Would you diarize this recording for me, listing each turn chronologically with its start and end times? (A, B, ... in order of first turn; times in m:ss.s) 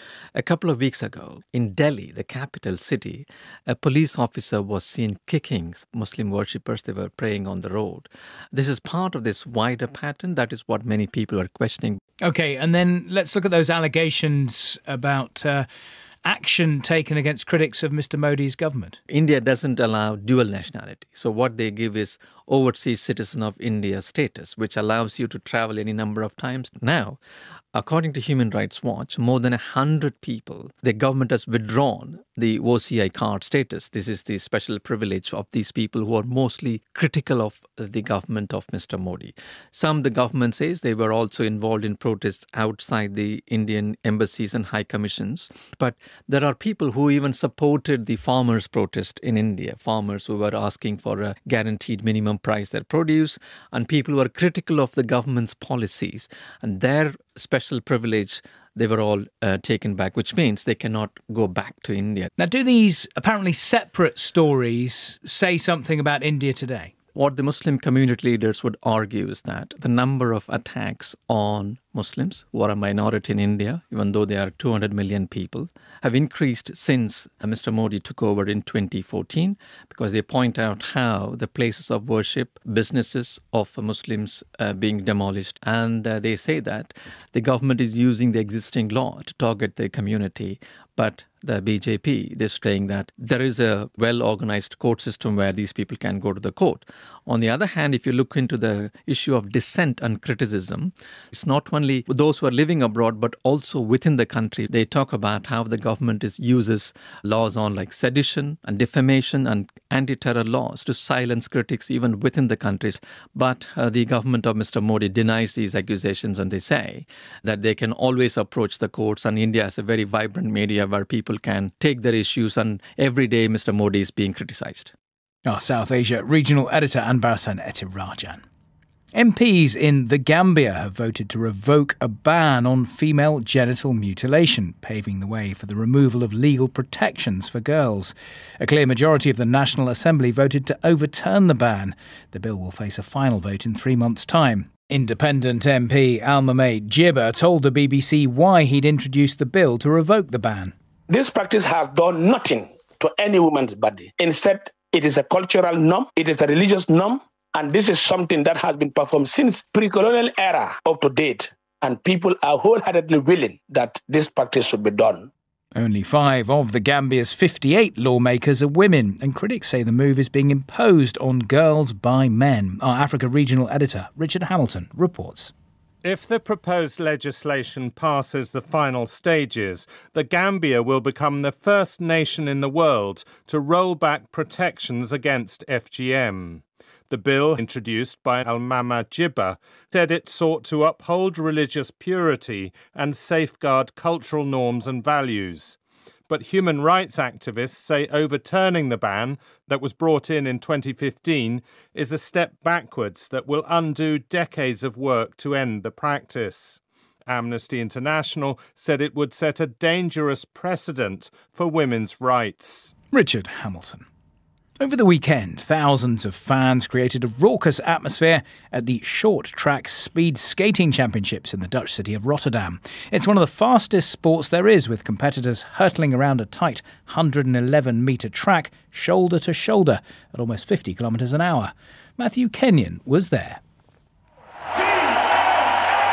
0:00.3-0:12.0 A
0:12.2-0:15.7 B
0:16.2-0:19.0 B
0:19.1-0:27.2 A
0:27.7-1:02.3 A
1:02.4-1:06.9 B
1:07.1-2:04.9 A
2:05.4-2:08.4 B
2:09.1-2:30.7 B
2:31.1-2:45.3 C
2:45.8-2:55.5 B
2:56.0-3:15.8 D
3:16.3-3:32.9 D
3:33.1-3:34.0 B
3:34.8-3:53.6 B